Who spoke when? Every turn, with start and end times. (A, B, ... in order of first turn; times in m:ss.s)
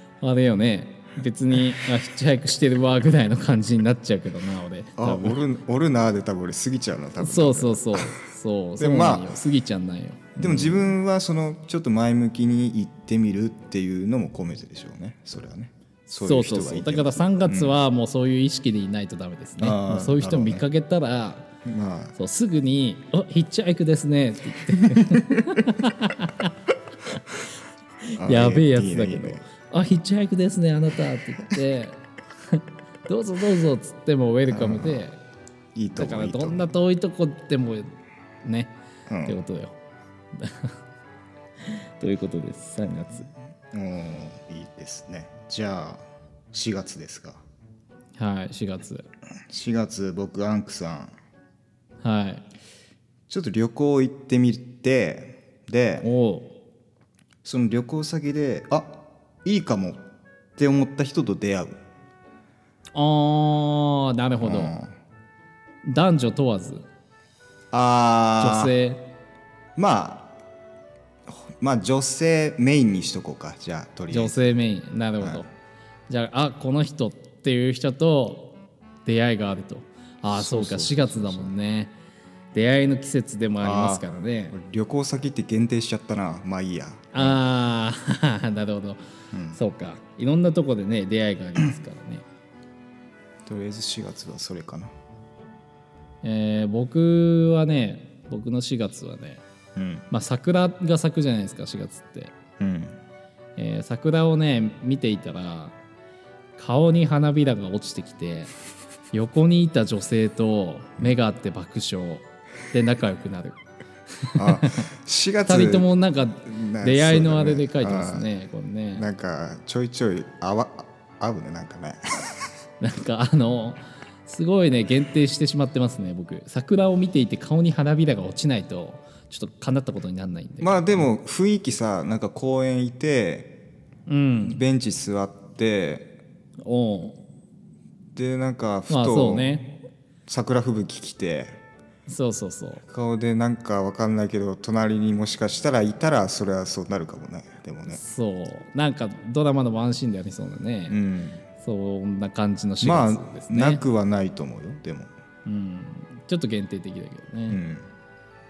0:00.2-0:05.4 A
0:05.0-0:08.1 B
0:07.2-0:10.9 A
0:08.8-0:09.3 B
0:10.4-0:17.8 B
0:16.1-0:21.5 A
0:19.6-0:20.6 B
0:21.6-0:22.2 B
0:22.2-0:26.5 A
0:28.0-0:35.2 A
0:28.2-0:29.4 B
0:34.5-0:35.1 B
0:35.8-0:36.7 B
0:36.0-0:37.9 A
0:38.4-0:38.7 A
0:39.1-0:39.4 B
0:39.2-0:39.8 A
0:40.3-0:40.8 A
0:41.6-0:43.3 A
0:43.7-0:47.4 B
0:48.2-0:49.1 A
0:49.5-0:51.1 B
0:52.0-0:52.4 A
0:53.3-0:56.1 B
0:56.0-0:56.6 A
0:57.4-1:00.0 B
1:00.6-1:01.8 B
1:02.9-1:04.8 A
1:04.4-1:04.9 B
1:05.8-1:06.9 A
1:07.7-1:08.8 B
1:08.4-1:09.0 A
1:09.8-1:10.3 B
1:11.3-1:14.6 B
1:14.1-1:15.5 A
1:16.1-1:18.5 A
1:19.0-1:21.9 A
1:20.3-1:21.5 B
1:22.5-1:24.6 A
1:23.6-1:27.4 B
1:27.1-1:29.0 A
1:29.3-1:29.6 B
1:29.5-1:32.2 A
1:33.5-1:34.9 B
1:36.2-1:39.4 A
1:39.8-1:40.1 B
1:40.1-1:42.3 A
1:42.6-1:43.0 B
1:43.6-1:45.8 A
1:46.6-1:48.5 A
1:49.1-1:53.6 A
1:54.2-1:54.9 A
1:54.4-1:55.9 B
1:55.5-1:59.0 A
1:56.4-1:58.3 B
1:59.0-2:02.4 B
2:02.8-2:11.1 A
2:10.6-2:13.6 B
2:14.1-2:14.6 A
2:14.4-2:16.2 B
2:16.6-2:17.2 A
2:18.2-2:19.7 B
2:18.9-2:19.8 A
2:20.3-2:21.6 B
2:22.1-2:22.8 A
2:22.9-2:28.0 B
2:27.9-2:31.0 A
2:30.9-2:31.4 B
2:31.6-2:33.8 A
2:32.8-2:35.1 B
2:35.4-2:37.6 A
2:37.5-2:37.9 B